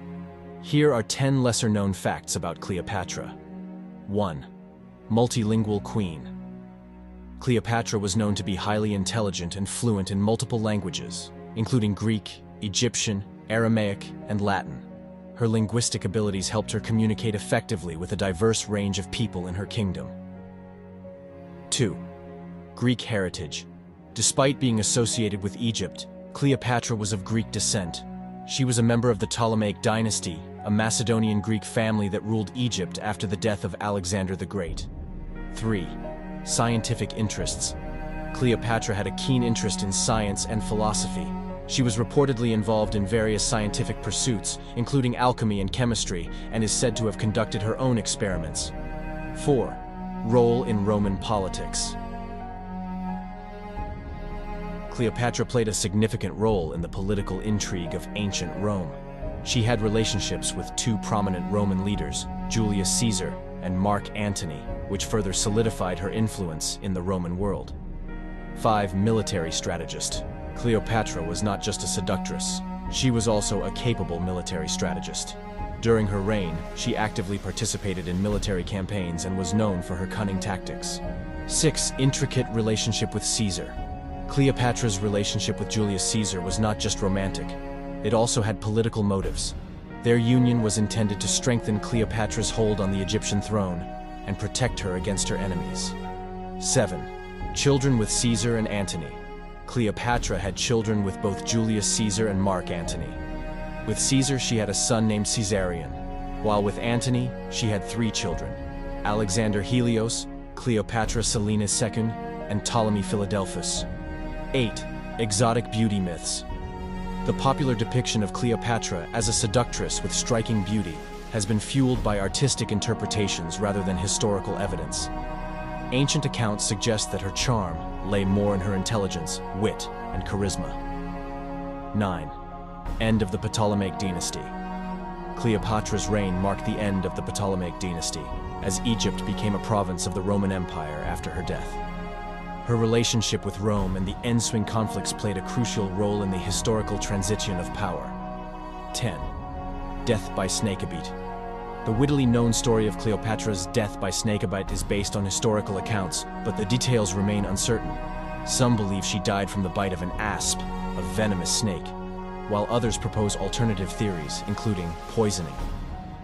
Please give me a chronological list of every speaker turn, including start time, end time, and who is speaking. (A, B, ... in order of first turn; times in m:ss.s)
0:00.6-0:03.4 A
0:04.1-0:04.5 A
0:05.1-0:06.3 A
0:07.4-0:20.2 A
0:21.7-0:22.0 A
0:22.8-0:34.9 A
0:35.5-0:37.8 A
0:38.3-0:48.7 A
0:49.3-0:52.0 A
0:54.9-1:07.8 A
1:08.6-1:36.0 A
1:36.6-1:43.2 A
1:43.8-1:53.9 A
1:54.5-1:56.5 A
1:57.2-2:05.1 A
2:05.9-2:10.8 A
2:11.9-2:12.4 A
2:13.0-2:14.5 A
2:15.3-2:21.8 A
2:22.6-2:28.2 A
2:28.9-2:29.3 A
2:30.0-2:31.2 A
2:31.8-2:42.0 A
2:42.5-2:45.7 A